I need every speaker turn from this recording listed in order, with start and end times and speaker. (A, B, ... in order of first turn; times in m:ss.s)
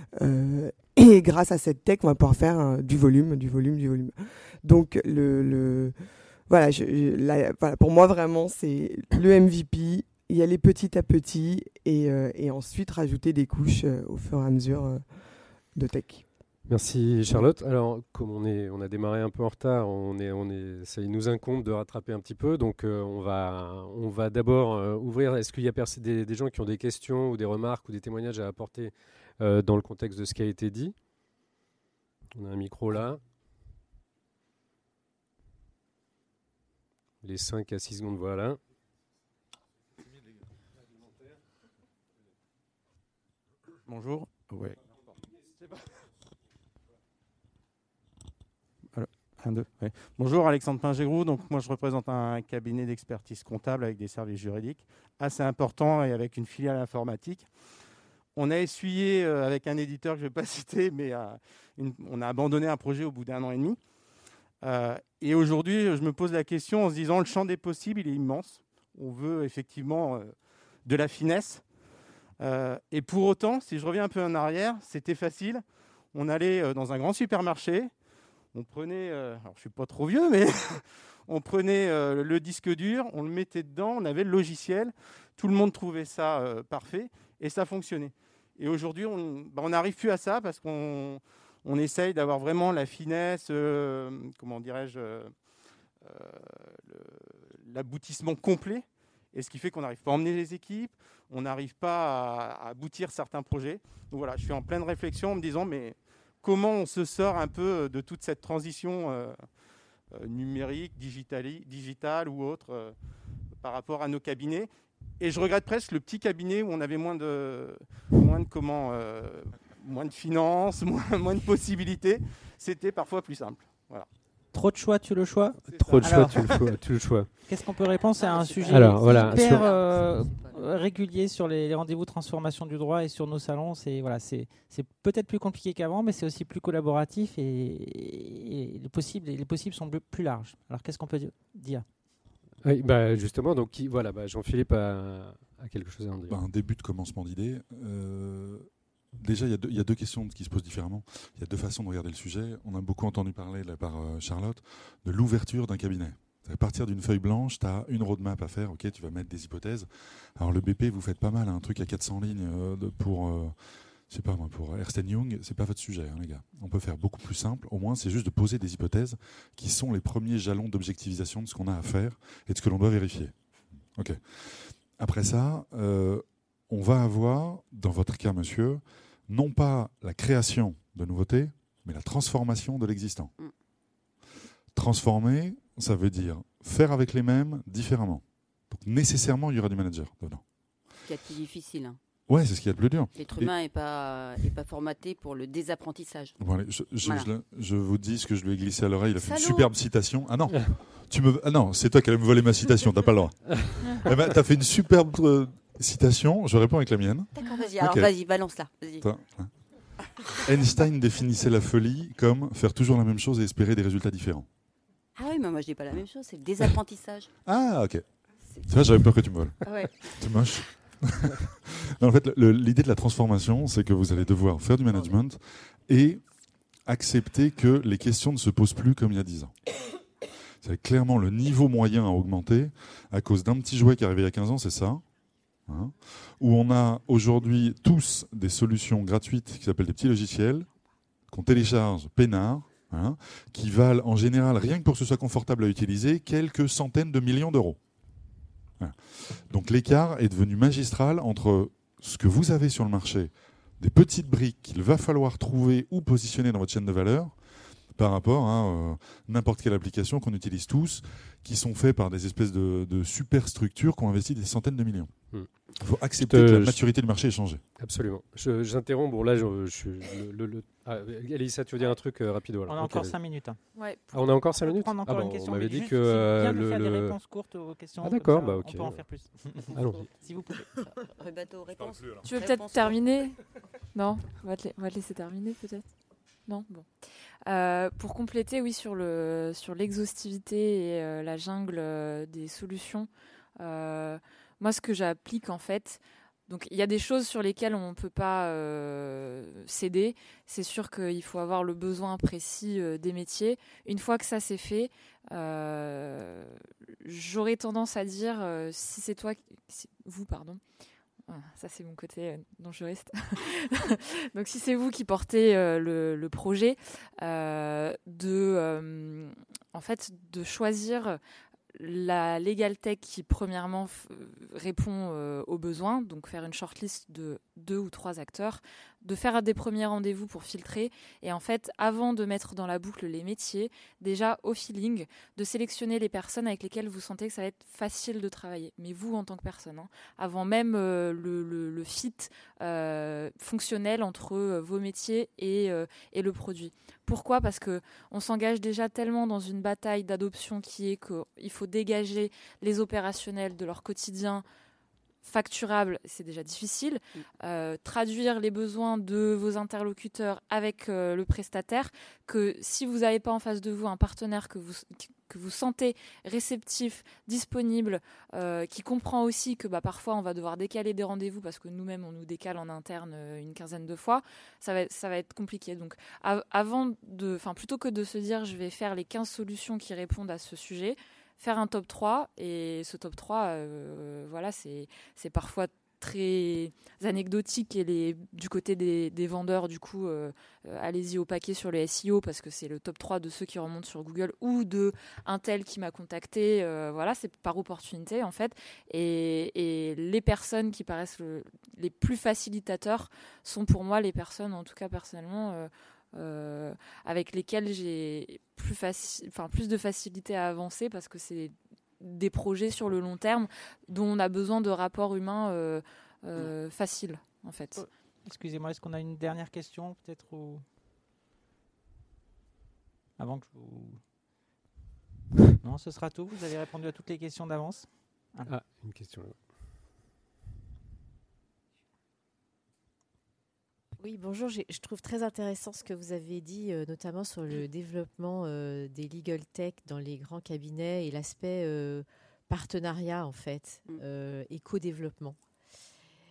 0:00.2-0:06.0 A
0:06.5-0:15.0 A
0:15.8-0:16.2 A
0:16.7-0:31.0 B
0:32.4-0:33.2 B
0:37.2-0:38.6 B
0:43.9-0:45.1 C
0:48.9-0:57.5 C
0:58.4-1:03.8 C
1:04.6-1:10.3 C
1:10.8-1:11.6 C
1:12.4-1:15.6 C
1:16.1-1:17.9 C
1:18.5-1:35.3 C
1:36.0-1:49.4 C
1:50.1-1:53.0 C
1:53.6-2:04.1 C
2:04.5-2:06.6 D
2:05.7-2:06.2 C
2:05.7-2:07.3 B
2:07.5-2:21.8 D
2:08.2-2:10.6 E
2:08.7-2:09.7 B
2:22.6-2:26.4 B
2:26.3-2:28.7 F
2:29.2-2:43.6 F
2:44.1-2:53.3 F
2:54.0-3:03.3 F
3:04.7-3:10.4 F
3:11.0-3:12.0 E
3:12.3-3:13.5 F
3:13.1-3:16.4 E
3:16.4-3:28.1 F
3:17.0-3:17.3 E
3:19.2-3:19.7 E
3:27.4-3:29.1 E
3:29.0-3:29.5 F
3:30.5-3:34.5 F
3:35.2-3:37.3 E
3:37.4-3:38.0 F
3:38.7-3:46.2 F
3:38.8-3:39.1 E
3:39.6-3:40.6 E
3:46.9-3:49.5 F
3:50.6-3:55.0 F
3:55.7-4:00.7 F
4:01.3-4:07.8 F
4:08.8-4:17.4 F
4:17.9-4:25.1 F
4:25.8-4:27.6 F
4:26.2-4:26.8 B
4:27.8-4:33.2 B
4:32.7-4:33.6 D
4:33.8-4:34.1 G
4:34.1-4:37.2 B
4:34.4-4:40.6 D
4:38.0-4:39.1 B
4:39.7-4:40.1 B
4:40.8-4:43.0 E
4:42.2-4:43.4 G
4:43.9-4:45.9 G
4:46.5-4:46.9 G
4:47.5-5:10.6 G
5:11.3-5:21.2 G
5:21.7-5:54.4 G
5:55.2-6:57.9 G
6:57.8-7:00.6 D
7:03.2-7:04.0 D
7:05.6-7:08.5 D
7:08.4-7:09.4 B
7:14.0-7:25.4 H